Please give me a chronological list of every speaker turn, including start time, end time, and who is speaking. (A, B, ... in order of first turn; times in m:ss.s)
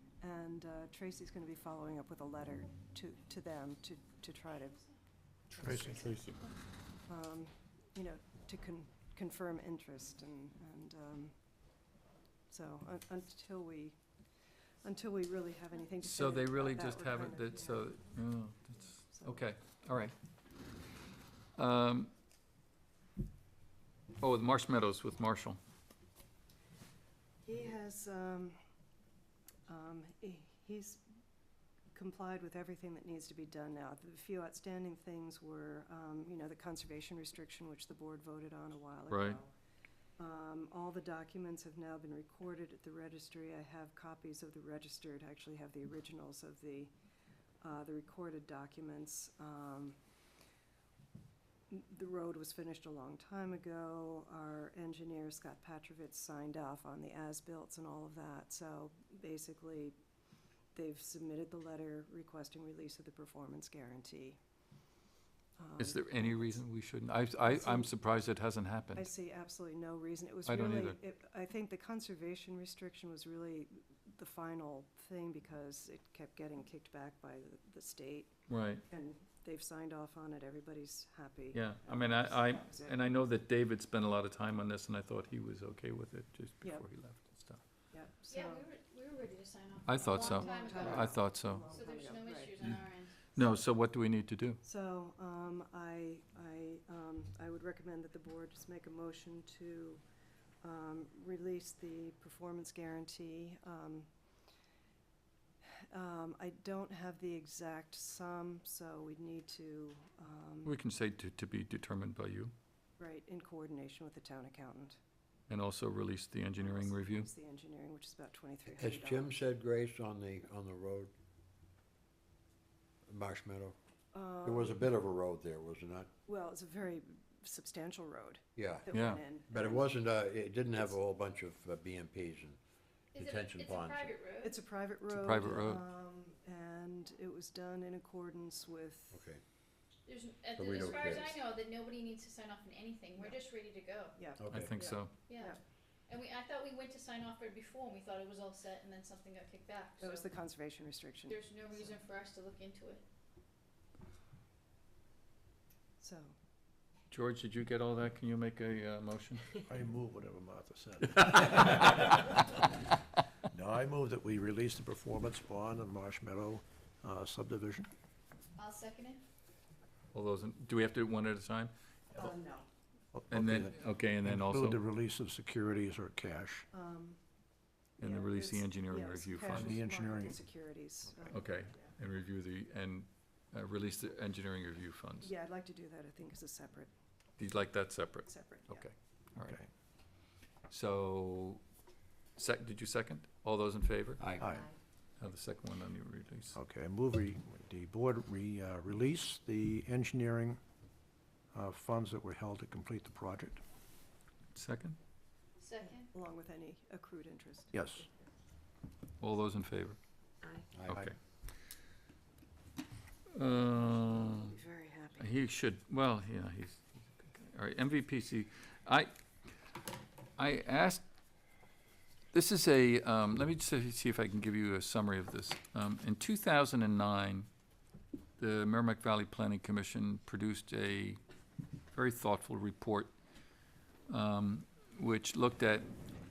0:00.2-0:04.8 A
0:05.5-0:06.4 B
0:05.6-0:06.0 C
0:05.6-0:06.0 A
0:07.0-0:11.4 A
0:12.5-0:14.0 A
0:14.8-0:17.8 A
0:16.0-0:20.1 B
0:19.1-0:19.4 A
0:21.6-0:22.1 B
0:24.2-0:25.6 B
0:27.4-0:28.6 A
0:29.7-0:31.0 A
0:31.9-0:39.5 A
0:39.1-0:39.4 B
0:40.2-0:46.9 A
0:47.6-0:50.0 A
0:51.7-1:00.0 A
1:00.7-1:04.4 A
1:05.6-1:06.6 A
1:05.8-1:09.1 B
1:07.5-1:07.9 A
1:08.9-1:18.3 A
1:10.4-1:11.0 B
1:18.5-1:18.8 B
1:18.9-1:23.0 A
1:21.5-1:27.6 B
1:27.9-1:28.7 A
1:28.3-1:33.3 D
1:29.8-1:31.7 B
1:30.0-1:32.8 A
1:33.3-1:34.6 B
1:34.6-1:40.0 A
1:40.6-1:44.1 A
1:45.9-1:50.7 A
1:50.6-1:52.5 B
1:53.0-1:55.0 A
1:55.5-1:57.3 B
1:56.6-1:59.4 A
1:58.7-2:01.1 E
2:03.1-2:03.8 E
2:04.1-2:04.8 A
2:04.4-2:06.1 E
2:06.2-2:09.9 A
2:08.6-2:08.8 E
2:08.9-2:09.2 B
2:09.5-2:12.6 E
2:13.1-2:14.6 D
2:13.2-2:14.2 E
2:14.4-2:19.2 A
2:15.1-2:15.8 B
2:19.1-2:19.4 E
2:20.1-2:24.2 D
2:20.5-2:21.4 E
2:24.2-2:24.4 A
2:24.4-2:24.8 E
2:24.5-2:25.2 B
2:25.2-2:25.6 D
2:26.1-2:30.2 D
2:30.0-2:32.0 A
2:31.3-2:33.0 D
2:36.0-2:36.3 A
2:37.1-2:39.5 B
2:39.7-2:42.7 C
2:43.5-2:47.9 C
2:48.6-2:49.2 D
2:50.1-2:51.7 B
2:52.2-2:52.7 A
2:53.1-2:56.6 C
2:53.3-2:54.8 B
2:56.7-2:57.2 A
2:58.0-2:59.8 B
2:58.0-3:01.9 A
2:59.5-3:00.4 C
3:01.2-3:05.3 B
3:05.2-3:06.9 A
3:07.4-3:09.6 B
3:08.3-3:08.9 A
3:10.7-3:11.6 B
3:12.4-3:14.2 B
3:14.2-3:14.4 E
3:14.4-3:14.7 C
3:15.2-3:16.6 B
3:16.5-3:20.6 C
3:21.5-3:23.6 C
3:24.5-3:25.0 B
3:25.6-3:26.1 D
3:25.8-3:27.8 A
3:27.7-3:28.0 C
3:29.2-3:30.0 B
3:30.7-3:31.1 E
3:30.9-3:31.1 B
3:33.3-3:34.5 B
3:34.4-3:35.3 A
3:35.2-3:39.1 B
3:40.4-3:41.0 B
3:42.3-3:47.5 B
3:48.4-3:51.2 B
3:51.9-3:53.1 B
3:54.1-3:55.9 B